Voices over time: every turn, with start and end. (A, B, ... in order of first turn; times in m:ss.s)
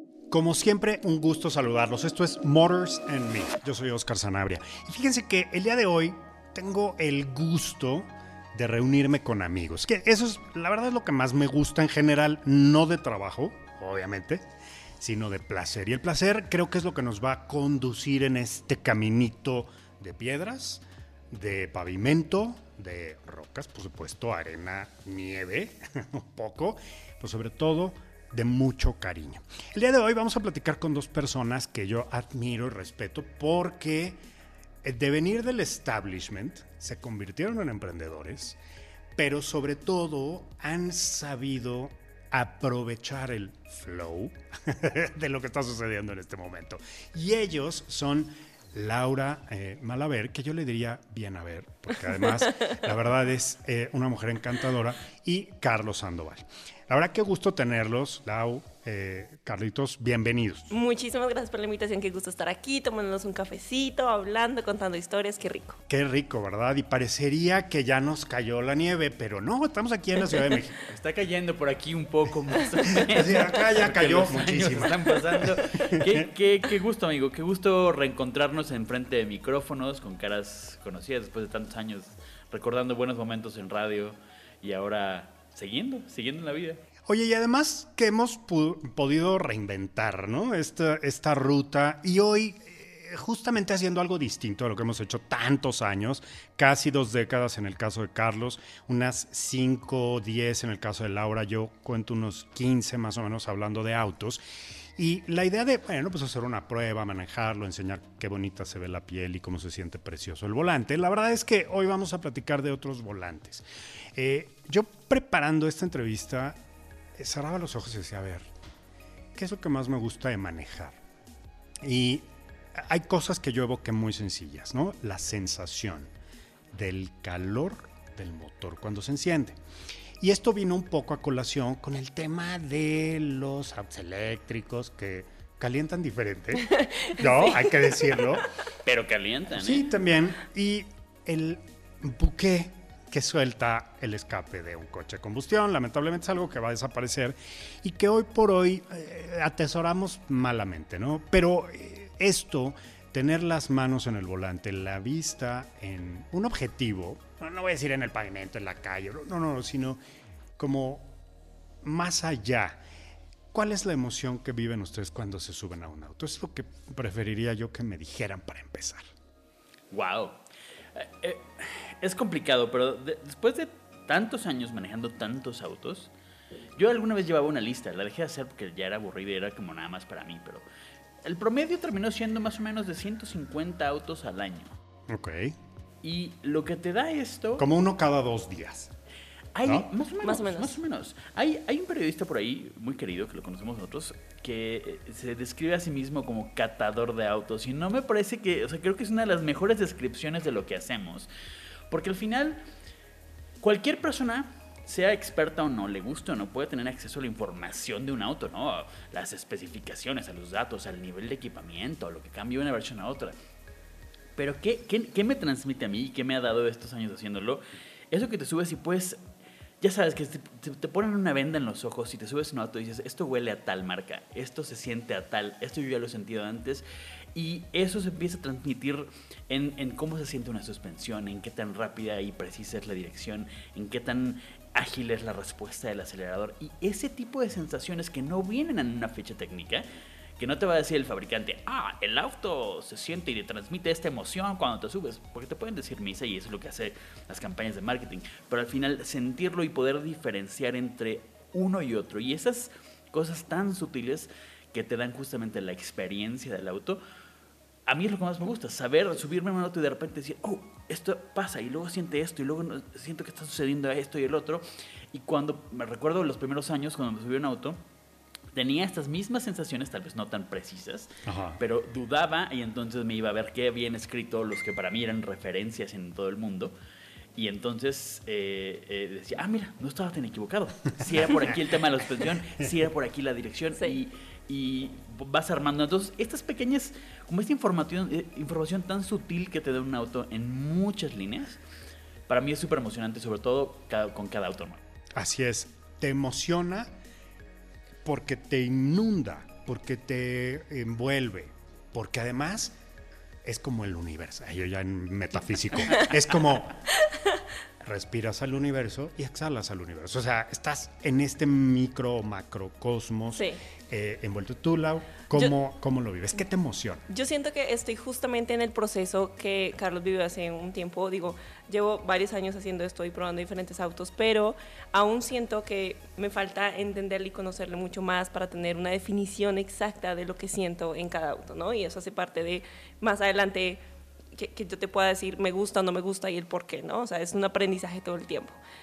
0:00.3-0:34.2 A
0:34.8-0:38.6 A
0:39.2-1:00.7 A
1:00.7-1:05.8 B
1:05.9-1:10.8 A
1:10.8-1:26.8 C
1:13.0-1:16.3 A
1:27.0-1:44.4 A
1:45.0-1:56.6 A
1:57.2-1:58.5 A
1:59.3-2:01.0 A
2:01.8-2:06.1 A
2:06.7-2:09.6 A
2:10.2-2:18.5 A
2:16.8-2:17.2 B
2:18.8-2:19.9 C
2:19.5-2:40.0 A
2:40.6-2:41.1 A
2:41.8-2:42.8 A
2:43.5-2:49.0 A
2:49.9-2:50.4 C
2:50.9-2:56.1 C
2:56.8-3:00.6 C
3:01.2-3:04.8 C
3:05.1-3:05.6 A
3:06.0-3:07.6 C
3:07.6-3:08.9 A
3:09.5-3:21.3 C
3:09.6-3:09.9 A
3:10.2-3:10.8 B
3:21.9-3:22.6 C
3:23.6-3:33.3 C
3:34.4-3:39.2 C
3:39.8-3:46.8 C
3:47.3-4:17.0 C
4:17.9-4:27.8 C
4:28.5-4:36.7 C
4:31.2-4:31.6 A
4:37.4-4:51.6 C
4:52.3-4:54.8 C
4:55.1-4:56.9 A
4:58.0-5:02.7 A
5:03.4-5:06.8 A
5:07.8-5:17.0 A
5:17.1-5:33.8 B
5:34.4-5:38.6 B